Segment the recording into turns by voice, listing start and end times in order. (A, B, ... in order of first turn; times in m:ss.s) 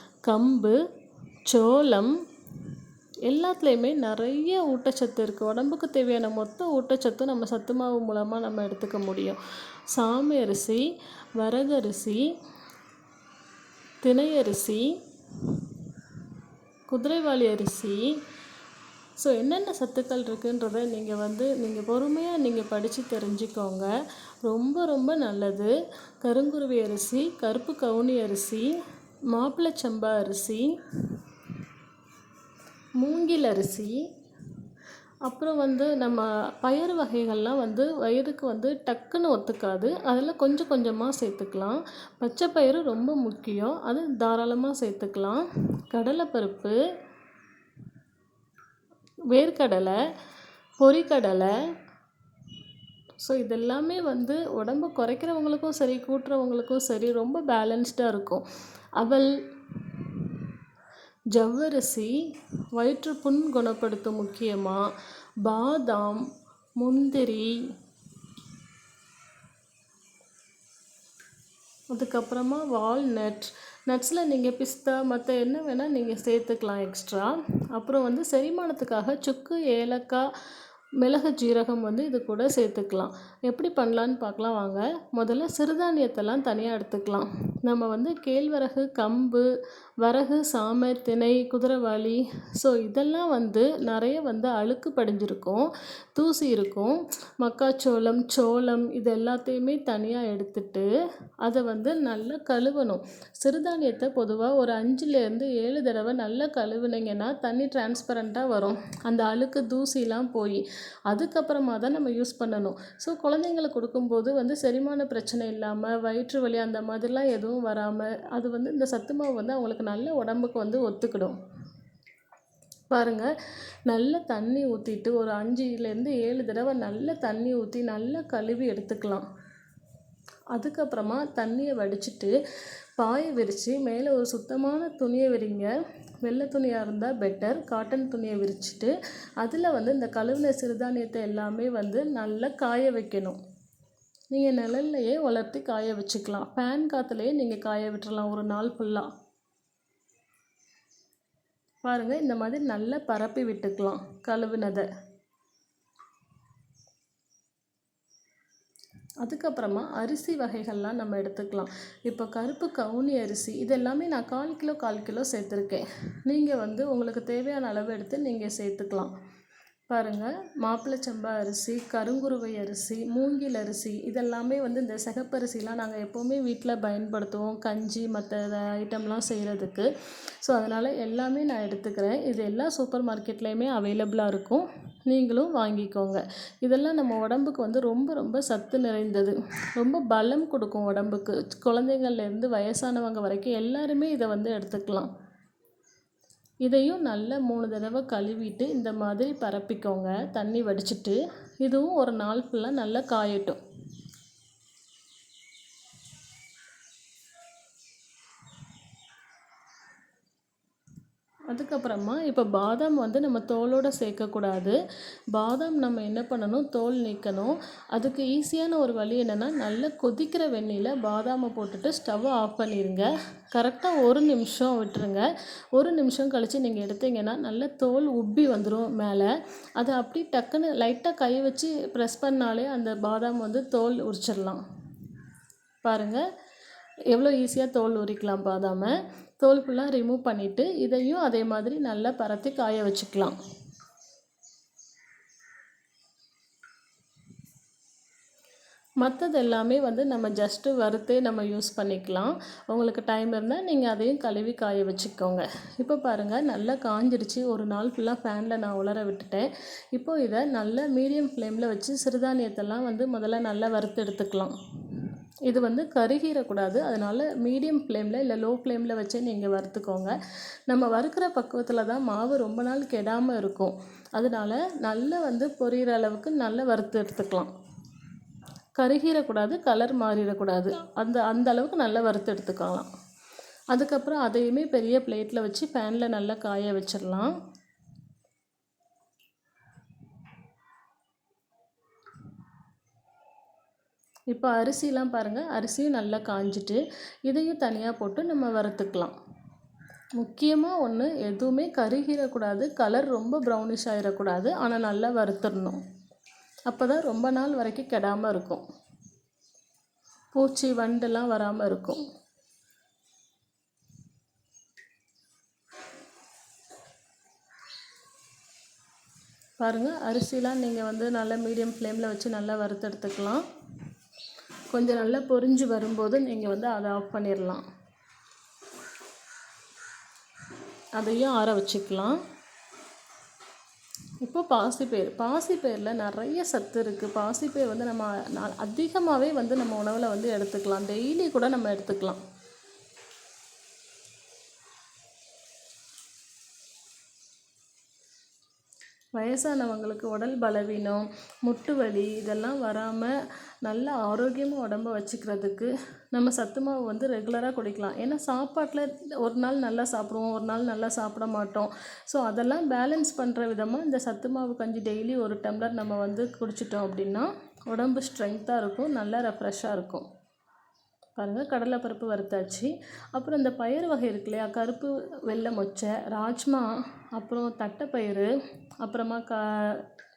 0:00.3-0:00.8 A
0:01.5-0:02.1 A
0:03.3-0:10.8 A
0:11.4-0:12.2 A
0:14.0-0:15.6 A
0:16.9-0:18.2 A
0:19.2-0:23.9 A
0:24.4-0:28.7 A
0:29.3-0:31.2 A
0:33.0-0:34.0 A
0:35.3-0:46.8 A
0:49.3-0:50.0 A
0:50.8-0:51.5 A
0:53.2-0:58.4 A
0:59.0-1:00.5 A
1:01.3-1:02.1 A
1:02.7-1:04.8 A
1:05.4-1:06.2 A
1:06.8-1:07.6 A
1:11.9-1:20.3 A
1:21.0-1:29.5 A
1:30.0-1:40.9 A
1:41.4-2:01.4 A
2:02.9-2:03.3 A
2:03.9-2:09.2 A
2:10.5-2:12.3 A
2:13.0-2:15.7 A
2:16.2-2:23.4 A
2:24.3-2:29.1 A
2:31.8-2:34.9 A
2:39.2-2:49.1 A
2:49.9-2:59.9 A
3:00.4-3:15.1 A
3:16.6-3:23.6 A
3:31.5-3:34.8 A
3:35.3-3:45.2 A
3:45.8-3:54.6 A
3:55.8-3:56.2 A
3:57.1-4:03.4 A
4:09.0-4:30.1 A
4:30.7-4:37.5 A
4:38.8-4:42.9 A
4:43.7-4:47.3 A
4:54.3-4:59.1 A
5:00.2-5:05.8 A
5:06.7-5:08.6 A
5:10.3-5:12.0 A
5:19.6-5:23.4 A
5:24.7-5:27.6 A
5:31.0-5:32.2 A
5:34.2-5:42.2 A
5:49.2-6:10.0 A
6:11.2-6:19.8 A